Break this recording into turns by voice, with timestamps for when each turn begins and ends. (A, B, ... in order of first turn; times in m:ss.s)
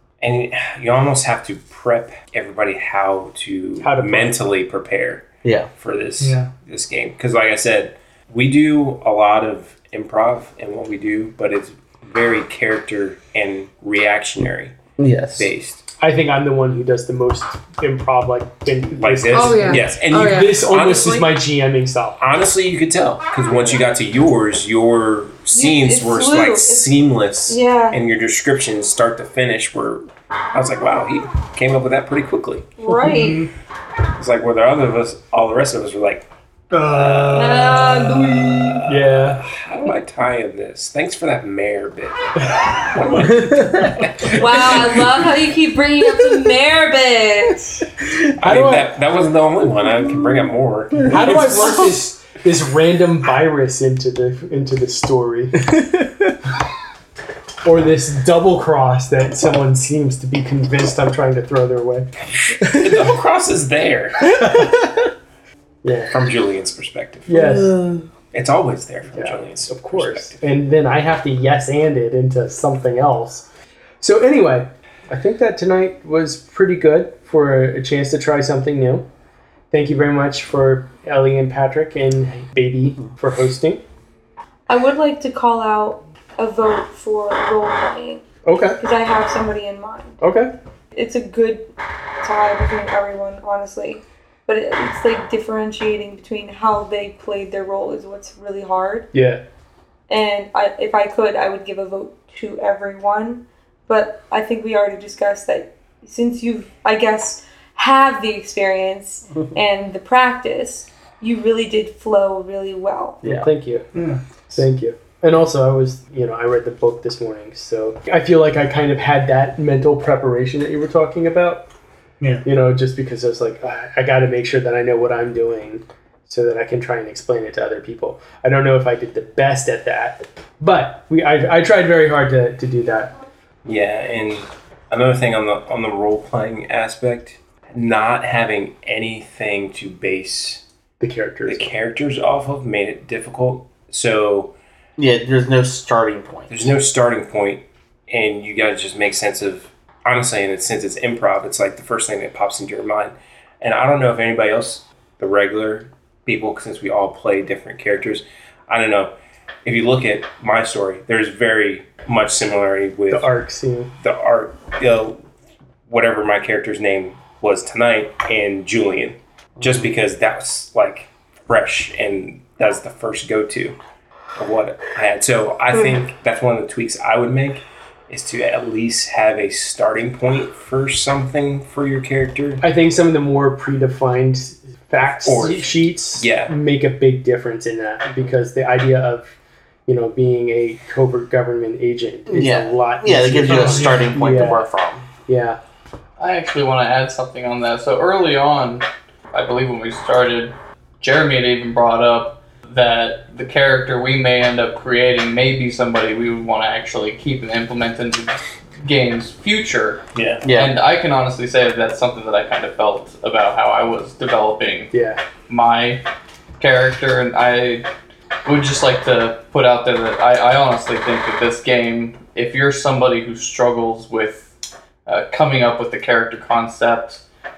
0:00.2-0:14.8 A
0:03.8-0:04.4 B
0:05.4-0:05.7 C
0:06.2-0:06.5 D
0:15.0-0:15.5 C
0:15.4-0:15.8 A
0:16.0-0:22.2 B
0:19.0-0:21.3 A
0:19.3-0:21.3 E
0:22.2-0:32.7 A
0:23.5-0:23.8 B
0:25.5-0:26.9 E
0:27.5-0:28.0 E
0:32.8-0:33.5 E
0:33.0-0:33.5 D
0:34.2-0:36.2 A
0:36.7-0:38.5 D
0:36.8-0:37.8 A
0:37.3-0:38.7 E
0:38.4-0:45.0 A
0:38.9-0:39.4 B
0:44.2-0:47.6 E
0:48.4-0:51.9 A
0:48.4-0:48.9 B
0:51.1-0:55.7 B
0:57.6-1:02.1 B
1:02.5-1:04.5 A
1:05.8-1:06.2 B
1:06.1-1:07.4 A
1:07.3-1:07.8 B
1:07.4-1:08.0 C
1:08.3-1:10.4 A
1:09.1-1:13.5 B
1:14.0-1:19.0 B
1:19.7-1:23.8 B
1:24.7-1:28.2 E
1:28.5-1:28.8 B
1:28.8-1:30.2 E
1:30.2-1:30.5 B
1:30.9-1:31.7 E
1:32.2-1:39.1 E
1:39.1-1:39.4 B
1:40.1-1:53.2 E
1:53.2-1:53.5 C
1:53.2-1:53.8 B
1:53.9-1:54.2 D
1:54.5-2:01.7 B
2:02.4-2:13.2 B
2:13.6-2:20.6 A
2:21.0-2:21.7 B
2:21.4-2:24.5 A
2:25.0-2:26.7 C
2:26.5-2:39.1 A
2:39.6-2:43.3 A
2:43.1-2:43.9 B
2:44.0-2:45.2 A
2:45.9-2:53.8 A
2:54.4-3:02.6 A
3:02.6-3:09.4 B
3:05.0-3:06.5 A
3:09.9-3:14.7 B
3:12.3-3:15.1 C
3:13.5-3:14.3 D
3:15.3-3:15.6 B
3:16.2-3:34.9 F
3:30.2-3:30.4 B
3:30.4-3:30.8 C
3:34.9-3:35.2 B
3:35.5-3:36.0 F
3:36.6-3:37.9 F
3:38.4-3:44.5 F
3:45.1-3:47.2 F